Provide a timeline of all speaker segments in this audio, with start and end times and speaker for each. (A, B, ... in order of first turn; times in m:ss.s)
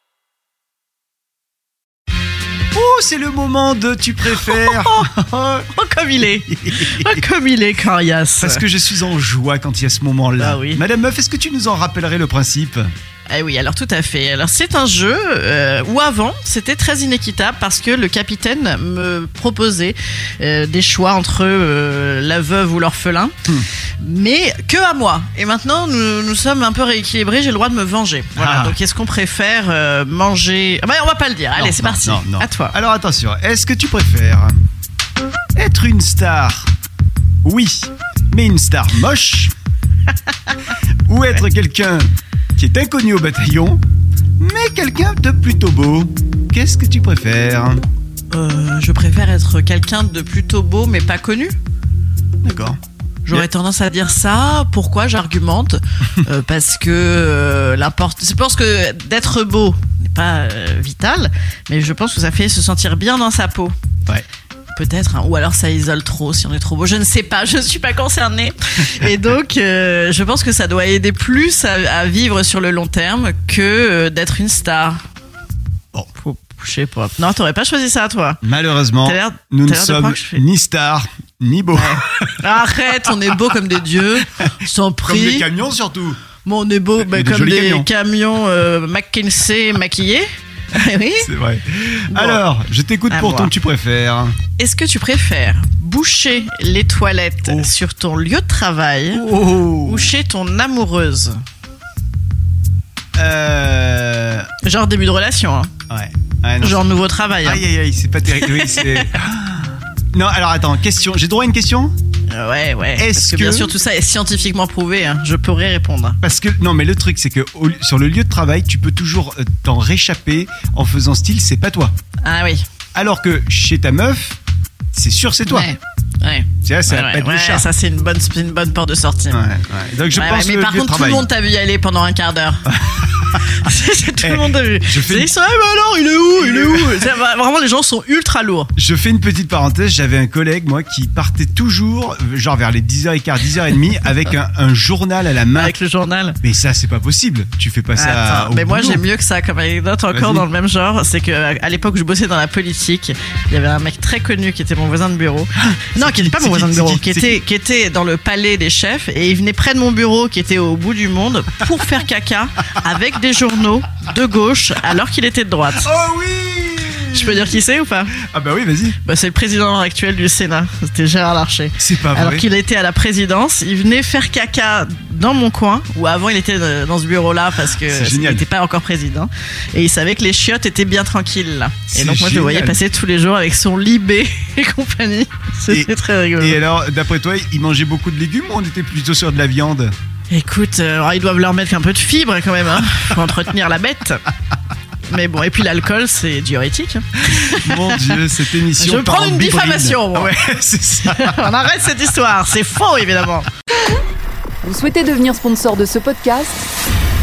0:02.7-0:05.6 A
0:04.3-0:08.6 B
0:06.5-0:07.2 A
0:08.4-0:12.9 A
0:10.4-0:10.8 B
0:13.3-0:23.4 B
0:24.0-0:32.8 B
0:28.4-0:28.8 A
0:31.6-0:34.5 A
0:35.6-0:36.7 A
0:37.4-0:39.5 A
0:41.1-0:43.8 A
0:44.4-0:47.8 A
0:48.3-0:51.6 B
0:52.4-0:52.8 A
0:53.3-1:03.7 B
1:04.7-1:15.0 B
1:16.2-1:18.4 B
1:18.4-1:23.3 A
1:19.0-1:20.4 B
1:21.7-1:25.5 B
1:25.0-1:26.2 A
1:26.4-1:31.3 B
1:27.0-1:27.9 A
1:31.2-1:34.4 A
1:32.1-1:32.4 B
1:33.1-1:33.5 B
1:34.6-1:41.4 B
1:39.1-1:40.1 A
1:43.2-1:44.5 A
1:44.6-1:45.7 B
1:45.9-1:46.9 A
1:46.6-1:47.6 B
1:47.4-1:51.9 A
1:48.3-1:49.1 B
1:52.3-1:56.2 B
1:53.0-1:53.7 A
1:56.2-2:01.9 A
2:02.2-2:02.6 B
2:03.0-2:04.4 A
2:04.9-2:05.7 A
2:05.5-2:09.4 B
2:06.6-2:07.7 A
2:09.3-2:11.3 A
2:10.1-2:12.8 B
2:12.7-2:13.4 A
2:13.3-2:18.7 B
2:14.2-2:15.3 A
2:16.4-2:17.1 A
2:18.8-2:25.8 A
2:25.5-2:26.4 B
2:26.4-2:29.0 A
2:28.0-2:45.9 B
2:30.1-2:30.5 A
2:35.8-2:37.4 A
2:45.8-2:47.5 A
2:47.1-2:48.2 B
2:48.2-2:49.0 A
2:49.0-3:06.6 B
2:51.8-2:52.5 A
2:57.8-2:58.4 A
3:01.9-3:02.8 A
3:05.7-3:09.9 A
3:10.3-3:14.3 B
3:15.1-3:18.2 B
3:17.4-3:21.5 A
3:18.8-3:23.5 B
3:24.6-3:26.7 C